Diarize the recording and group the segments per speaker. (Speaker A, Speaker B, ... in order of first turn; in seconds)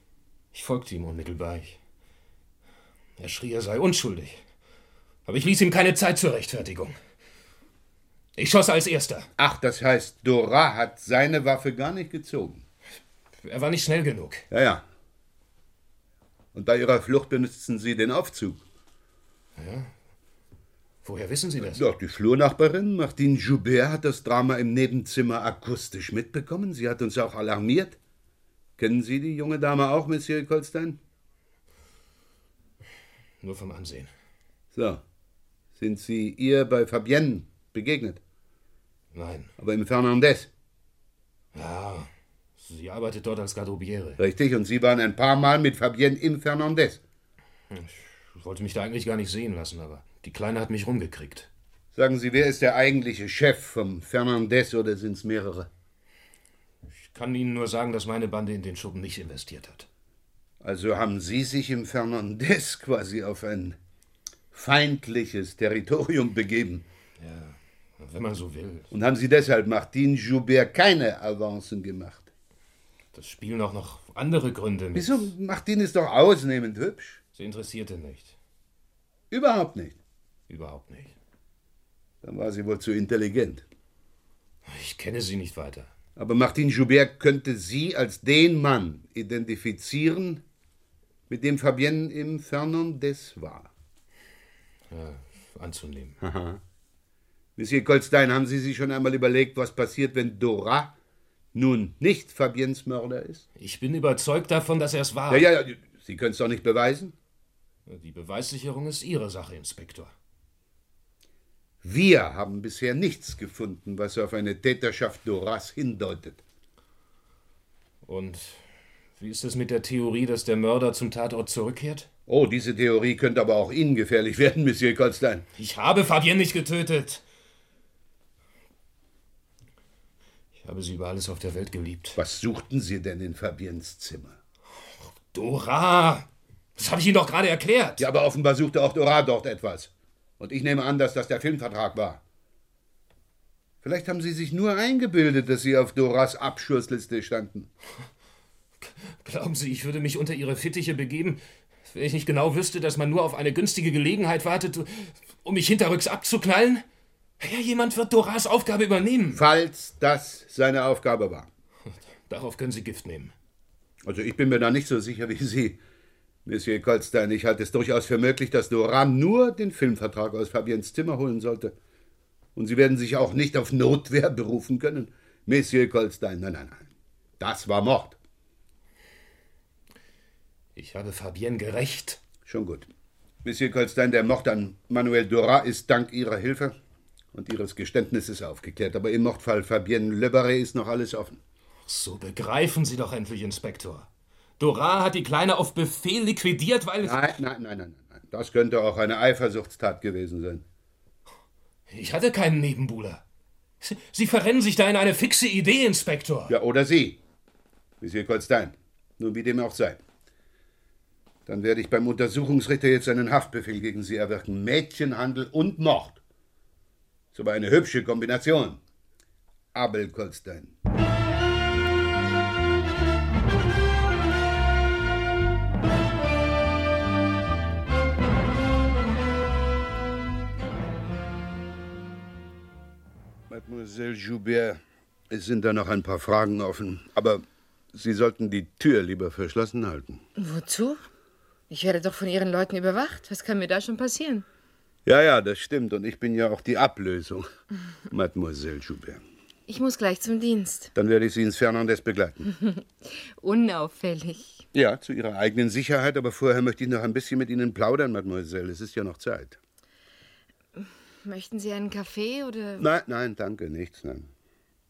Speaker A: 0.5-1.8, 3.2-4.4, 5.2-7.0, 8.3-9.3, 13.4-14.4, 19.6-19.9, 21.0-21.8, 33.4-34.1, 39.1-39.5, 41.5-44.2, 47.7-51.5, 56.9-59.9, 67.2-68.9, 73.1-75.3, 77.3-78.3, 80.5-81.1, 84.6-85.9, 94.9-96.2, 103.6-105.5, 107.9-110.1, 118.0-118.6, 119.2-122.1, 125.5-127.2, 130.6-132.2, 135.0-138.1, 148.8-156.8, 157.4-159.4, 162.3-163.3, 180.8-182.2, 191.8-194.1, 194.6-197.2, 201.9-203.2, 203.8-206.5
Speaker B: 9.4-12.6, 14.5-14.8, 16.5-18.6, 21.6-28.0, 28.8-31.0, 34.7-35.0, 35.8-38.2, 39.6-40.5, 44.2-47.0, 51.9-55.7, 60.6-63.8, 64.5-66.8, 68.9-72.3, 74.9-77.2, 79.3-80.0, 82.2-83.6, 86.2-90.4, 91.3-93.7, 96.2-96.6, 97.6-100.9, 101.5-103.4, 105.3-107.1, 111.8-116.4, 122.3-125.4, 132.2-134.4, 138.0-142.2, 143.8-147.7, 159.3-161.5, 164.0-165.8, 166.4-171.7, 172.6-176.8, 177.4-178.2, 182.4-182.9, 183.4-186.8, 187.3-191.4, 197.0-200.6, 206.5-207.2, 208.0-210.0, 211.4-216.2, 217.3-218.8, 219.7-220.7, 233.5-237.4, 237.9-240.2, 245.1-247.4, 248.1-249.2, 250.9-252.5, 254.7-259.6, 262.8-264.3
Speaker C: 240.4-241.0, 241.7-244.4, 249.7-250.9, 252.5-254.6, 260.7-262.8